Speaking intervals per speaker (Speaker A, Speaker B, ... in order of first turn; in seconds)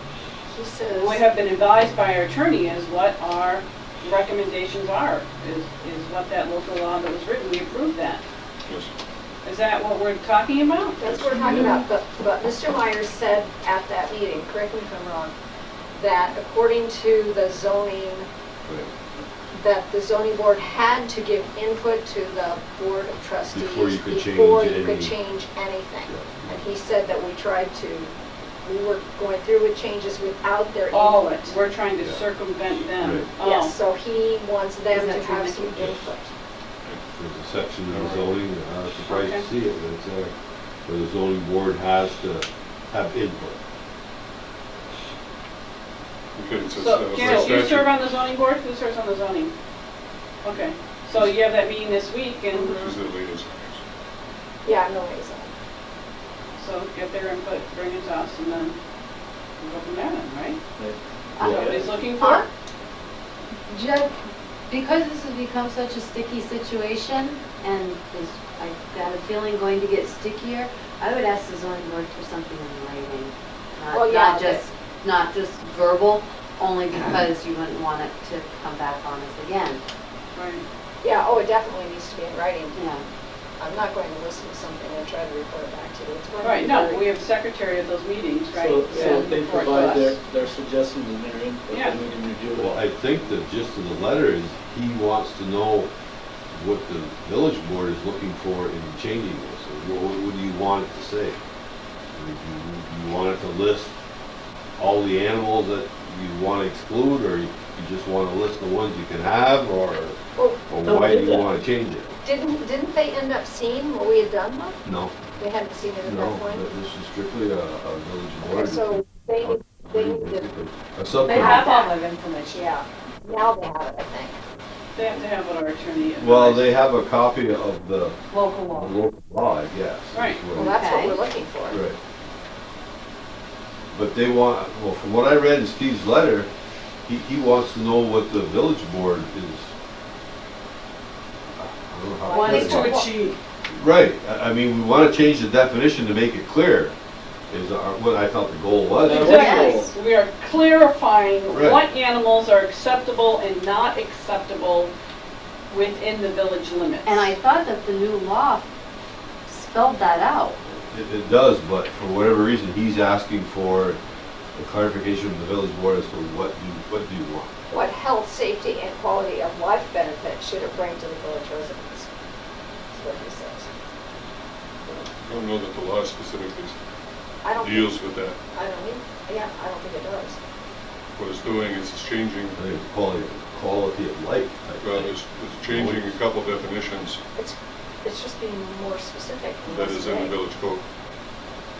Speaker A: 0.5-1.2, 11.0-15.3, 15.9-18.3, 19.5-28.1, 28.6-31.6, 33.4-36.3, 52.5-52.9, 54.6-55.5, 62.2-62.4, 73.9-74.7, 81.0-82.8, 83.6-87.1, 110.4-110.6, 112.2-114.8, 115.4-116.7, 118.5-120.5, 121.3-121.9, 122.5-124.4, 130.5-131.8, 167.7-172.1, 172.9-173.7, 177.4-177.9, 178.5-180.4, 187.3-190.3
Speaker B: 0.9-8.2, 9.4-11.0, 30.9-33.8, 39.1-39.5, 46.8-49.5, 50.4-52.8, 56.6-58.8, 59.6-60.6, 61.4-62.5, 80.3-80.6, 86.4-90.2, 91.7-92.0, 124.9-126.7, 130.1-130.4, 142.3-143.3, 149.1-154.9, 155.7-157.3
Speaker C: 8.7-8.9, 11.0-11.6, 37.9-38.3, 46.4-48.0, 52.7-53.8, 175.2-176.8, 177.6-178.4, 181.2-182.6, 184.8-187.2, 189.6-190.8
Speaker D: 11.5-11.8, 61.5-61.8, 88.5-92.8, 110.8-111.5, 149.0-149.9
Speaker E: 18.6-18.9, 23.5-25.2, 26.1-26.6, 33.0-33.3, 37.1-40.3, 40.9-43.6, 92.5-95.9, 96.5-101.4, 102.1-103.9, 104.8-112.1, 114.8-115.2, 116.0-121.7, 126.2-128.2, 128.7-130.8, 131.7-132.0, 133.9-136.5, 137.1-139.7, 141.5-143.0, 143.7-146.9, 147.5-149.6, 151.5-151.8, 160.6-164.0, 164.5-167.5, 182.6-185.1, 185.7-186.1
Speaker F: 34.9-36.0, 63.7-64.2, 64.7-79.8, 82.7-83.0, 121.2-122.7, 128.3-128.9, 130.6-131.2, 142.3-143.1, 149.3-149.8, 157.0-158.7, 159.5-160.6